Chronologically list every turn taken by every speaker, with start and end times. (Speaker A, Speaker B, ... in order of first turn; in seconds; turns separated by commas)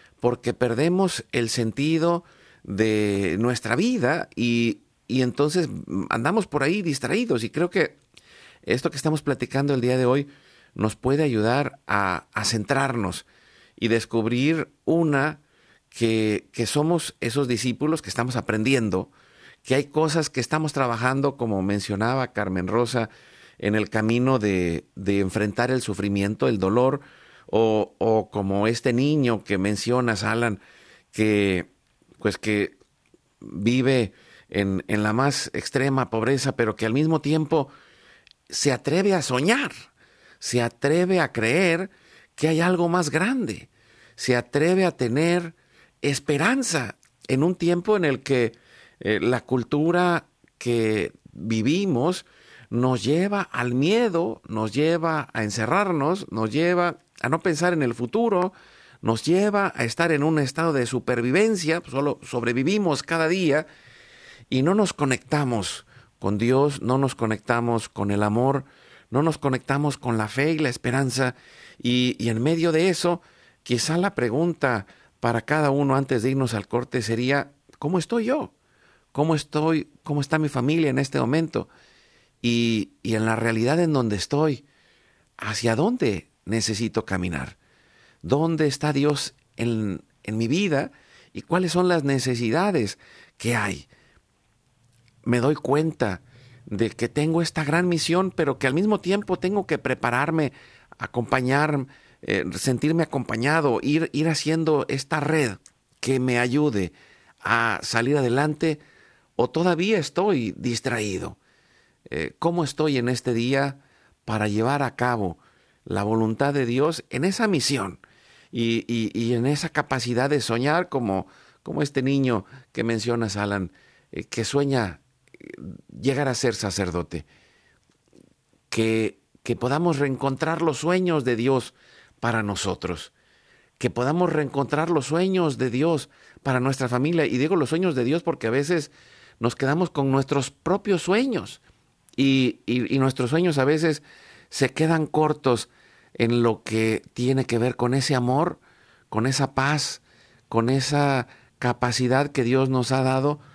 Speaker A: 0.2-8.0, Speaker A: 8.7-13.3, Speaker A: 13.8-15.4, Speaker A: 15.9-19.1, Speaker A: 19.6-30.6, Speaker A: 31.1-31.7, Speaker A: 32.2-32.8, Speaker A: 33.4-37.7, Speaker A: 38.5-39.7, Speaker A: 40.4-63.7, Speaker A: 64.5-78.5, Speaker A: 79.1-81.7, Speaker A: 82.4-84.6, Speaker A: 85.4-87.6, Speaker A: 88.2-93.9, Speaker A: 95.2-108.8, Speaker A: 109.4-111.4, Speaker A: 112.1-118.0, Speaker A: 118.5-127.3, Speaker A: 128.7-133.1, Speaker A: 133.8-141.6, Speaker A: 142.2-153.4